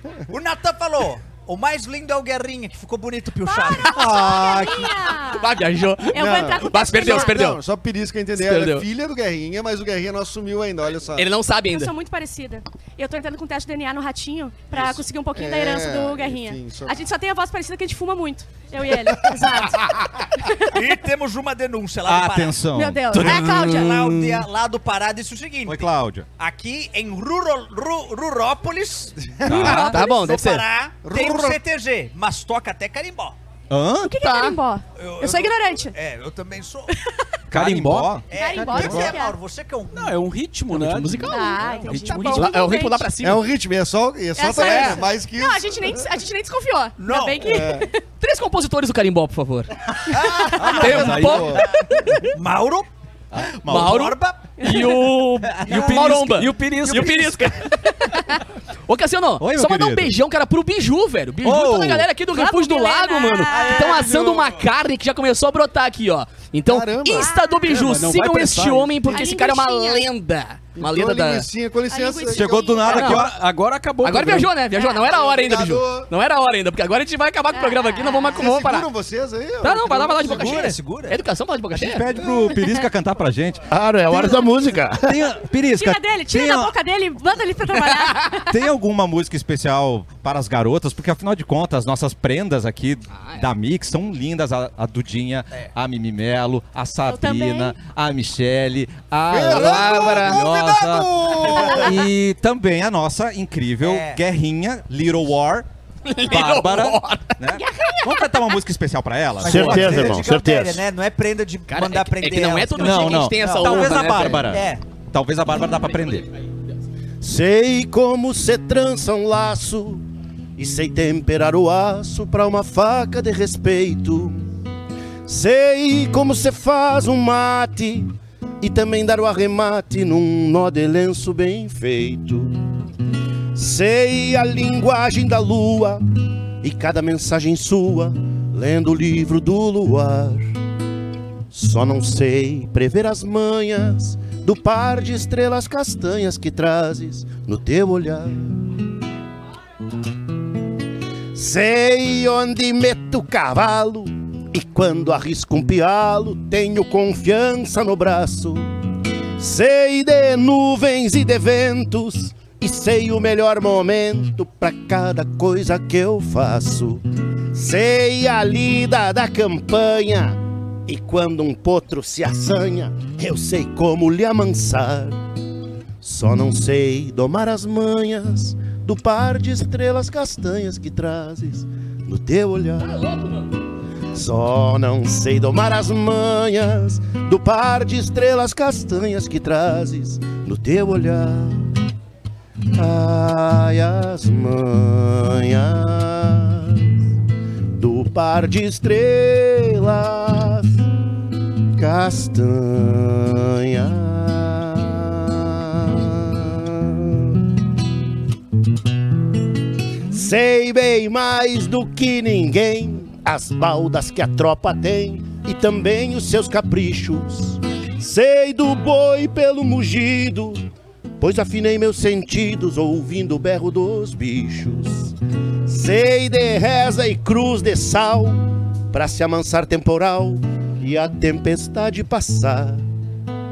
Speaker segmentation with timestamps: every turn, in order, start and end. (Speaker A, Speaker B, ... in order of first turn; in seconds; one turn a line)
Speaker A: 0.3-4.3
Speaker B: 3.5-5.5
Speaker C: 3.9-4.9
Speaker D: 4.3-4.6
Speaker E: 5.3-7.6
Speaker B: 6.1-7.4
Speaker D: 6.2-11.3
Speaker E: 8.3-8.8
Speaker E: 11.2-11.9
Speaker B: 11.7-20.8
Speaker D: 14.7-17.0
Speaker A: 20.6-22.6
Speaker C: 22.1-23.5
Speaker B: 22.7-24.1
Speaker E: 23.1-23.9
Speaker A: 23.1-33.4
Speaker C: 25.6-26.3
Speaker D: 29.4-29.8
Speaker C: 29.4-29.9
Speaker E: 29.5-30.6
Speaker B: 29.5-30.2
Speaker D: 31.0-31.6
Speaker C: 33.7-34.1
Speaker B: 34.0-36.0
Speaker E: 34.2-34.6
Speaker A: 34.9-36.9
Speaker B: 36.9-37.2
Speaker F: 37.5-38.2
Speaker C: 37.5-38.2
Speaker A: 38.3-40.2
Speaker B: 38.3-39.4
Speaker F: 39.9-42.5
Speaker E: 40.7-43.4
Speaker B: 41.3-43.1
Speaker D: 43.2-46.1
Speaker B: 44.4-48.0
Speaker E: 44.5-45.0
Speaker A: 47.0-47.5
Speaker D: 47.4-47.9
Speaker E: 48.2-49.7
Speaker A: 50.0-51.6
Speaker B: 50.4-50.9
Speaker C: 50.5-51.4
Speaker E: 50.6-51.6
Speaker D: 50.8-51.7
Speaker F: 51.0-51.4
Speaker B: 51.7-52.3
Speaker A: 52.3-52.9
Speaker C: 53.3-54.1
Speaker A: 53.7-54.6
Speaker E: 53.7-58.2
Speaker B: 54.6-54.9
Speaker F: 54.6-57.6
Speaker A: 55.6-55.9
Speaker E: 58.9-71.5
Speaker C: 59.4-60.1
Speaker C: 61.4-62.1
Speaker B: 62.2-64.1
Speaker A: 63.5-64.5
Speaker D: 66.7-67.3
Speaker B: 67.1-67.9
Speaker F: 67.7-69.2
Speaker B: 69.1-70.1
Speaker D: 70.8-72.9
Speaker B: 71.9-73.2
Speaker C: 72.3-73.4
Speaker E: 72.9-73.3
Speaker F: 72.9-74.6
Speaker E: 74.0-78.9
Speaker B: 74.7-75.1
Speaker D: 75.1-76.1
Speaker B: 77.5-78.5
Speaker D: 78.3-80.5
Speaker E: 79.6-82.1
Speaker A: 80.1-81.2
Speaker C: 81.7-83.6
Speaker D: 82.2-82.5
Speaker G: 83.7-85.3
Speaker C: 85.0-86.7
Speaker B: 85.7-88.6
Speaker E: 87.8-88.3
Speaker C: 88.5-105.7
Speaker E: 93.1-93.4
Speaker B: 97.1-97.8
Speaker D: 99.3-102.0
Speaker E: 99.5-100.4
Speaker A: 101.5-101.8
Speaker A: 103.8-104.2
Speaker E: 106.0-107.4
Speaker C: 106.3-110.1
Speaker B: 107.5-108.5
Speaker G: 109.4-110.8
Speaker A: 109.4-114.8
Speaker E: 111.7-114.5
Speaker C: 112.8-116.3
Speaker G: 117.2-120.0
Speaker G: 120.6-124.4
Speaker G: 125.2-132.6
Speaker G: 133.5-136.0
Speaker G: 136.6-140.6
Speaker G: 141.5-148.6
Speaker G: 151.3-158.6
Speaker G: 159.4-175.2
Speaker G: 176.0-183.0
Speaker E: 182.8-183.4
Speaker G: 184.1-191.7
Speaker G: 192.7-197.0
Speaker G: 197.8-200.8
Speaker G: 201.8-207.5
Speaker G: 210.1-220.7
Speaker G: 221.2-232.8